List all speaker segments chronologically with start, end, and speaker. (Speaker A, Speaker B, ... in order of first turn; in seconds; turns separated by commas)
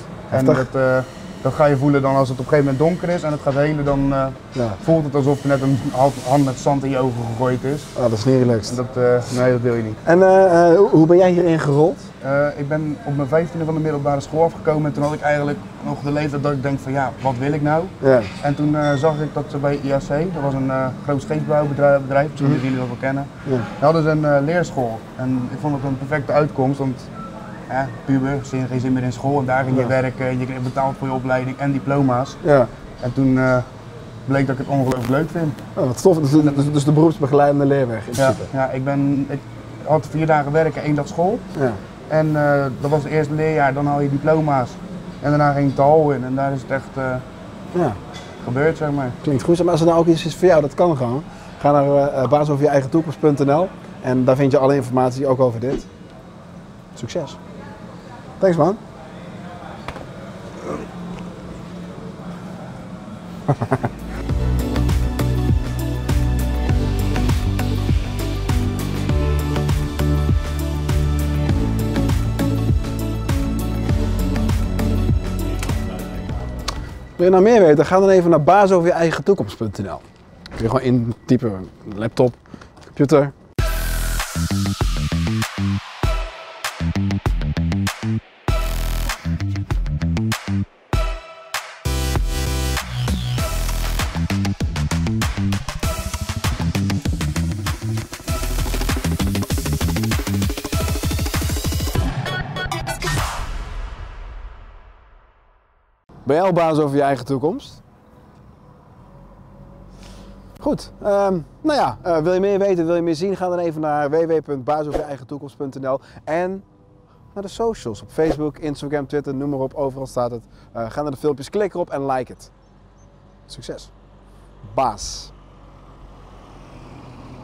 Speaker A: 0.3-0.7, Speaker B: 0.3-7.9, Speaker A: 8.0-8.8, Speaker B: 8.7-10.0, Speaker A: 10.1-12.1, Speaker B: 12.2-27.1, Speaker A: 18.0-18.3, Speaker B: 27.7-32.4, Speaker A: 32.4-32.7, Speaker B: 33.0-33.6, Speaker B: 34.3-35.6, Speaker A: 35.8-38.5, Speaker B: 36.3-36.7, Speaker B: 38.1-41.4, Speaker B: 42.1-47.2, Speaker B: 48.4-49.1, Speaker A: 49.2-55.9, Speaker A: 56.9-57.4, Speaker A: 58.4-58.8, Speaker A: 77.2-83.3, Speaker A: 106.2-107.8, Speaker A: 110.6-116.6, Speaker A: 117.3-122.5, Speaker A: 123.5-123.9, Speaker A: 124.6-125.3